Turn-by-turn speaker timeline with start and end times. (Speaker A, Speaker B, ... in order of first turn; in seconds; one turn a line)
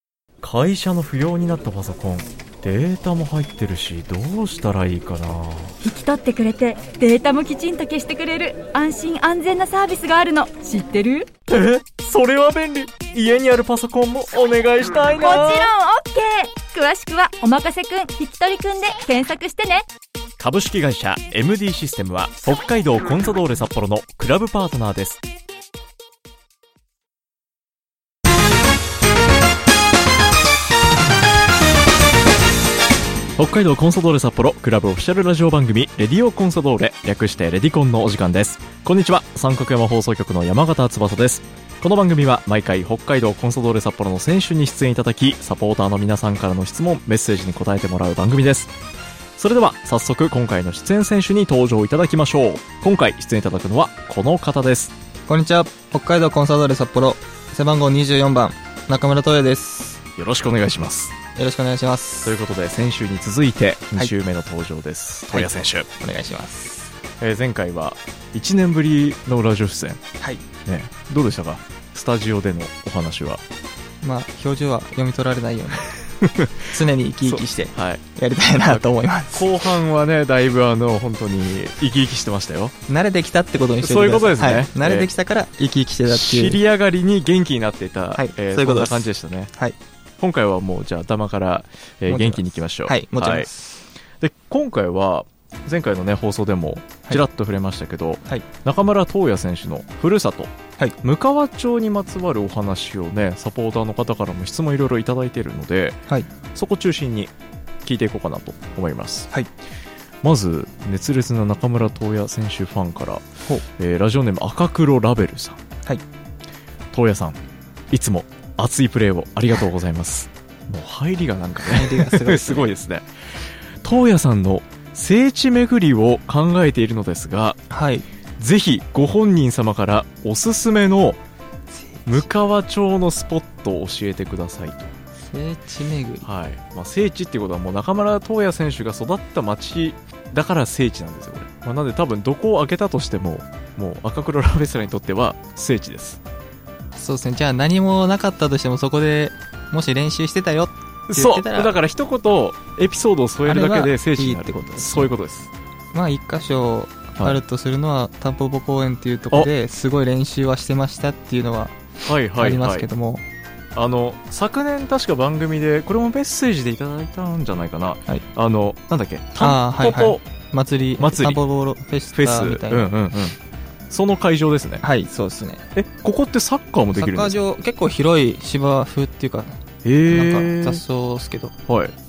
Speaker A: 0.4-5.8
Speaker B: 5.8-11.3
Speaker A: 11.5-15.7
Speaker B: 15.1-19.8
Speaker A: 20.4-25.2
Speaker A: 33.4-48.7
Speaker A: 49.4-54.9
Speaker C: 55.3-60.0
Speaker A: 60.2-61.1
Speaker C: 61.3-62.4
Speaker A: 62.2-65.9
Speaker C: 65.3-66.9
Speaker A: 67.2-70.0
Speaker C: 70.2-70.4
Speaker A: 70.7-73.4
Speaker C: 74.0-75.9
Speaker A: 76.0-76.5
Speaker C: 76.6-79.5
Speaker A: 77.2-78.0
Speaker A: 78.7-82.7
Speaker C: 82.9-86.6
Speaker A: 83.8-85.1
Speaker A: 86.0-89.5
Speaker C: 88.1-89.8
Speaker A: 90.2-93.5
Speaker C: 92.1-93.8
Speaker A: 94.2-100.5
Speaker A: 101.0-106.0
Speaker A: 106.5-107.3
Speaker A: 107.8-109.3
Speaker A: 110.2-113.2
Speaker A: 113.8-115.6
Speaker A: 116.9-117.4
Speaker A: 117.9-123.1
Speaker C: 121.6-122.7
Speaker A: 123.8-127.6
Speaker C: 127.7-128.1
Speaker A: 128.4-131.2
Speaker C: 131.7-132.3
Speaker A: 132.1-134.9
Speaker C: 135.3-136.3
Speaker A: 136.2-146.2
Speaker C: 146.9-151.7
Speaker A: 151.1-155.5
Speaker C: 153.4-155.1
Speaker C: 155.9-161.8
Speaker A: 162.0-162.9
Speaker C: 162.3-163.2
Speaker A: 163.7-170.2
Speaker C: 169.4-172.9
Speaker A: 171.0-171.4
Speaker A: 172.1-173.4
Speaker A: 173.9-174.8
Speaker C: 174.8-175.7
Speaker A: 175.7-177.3
Speaker C: 176.9-181.6
Speaker A: 179.8-180.8
Speaker A: 181.7-181.9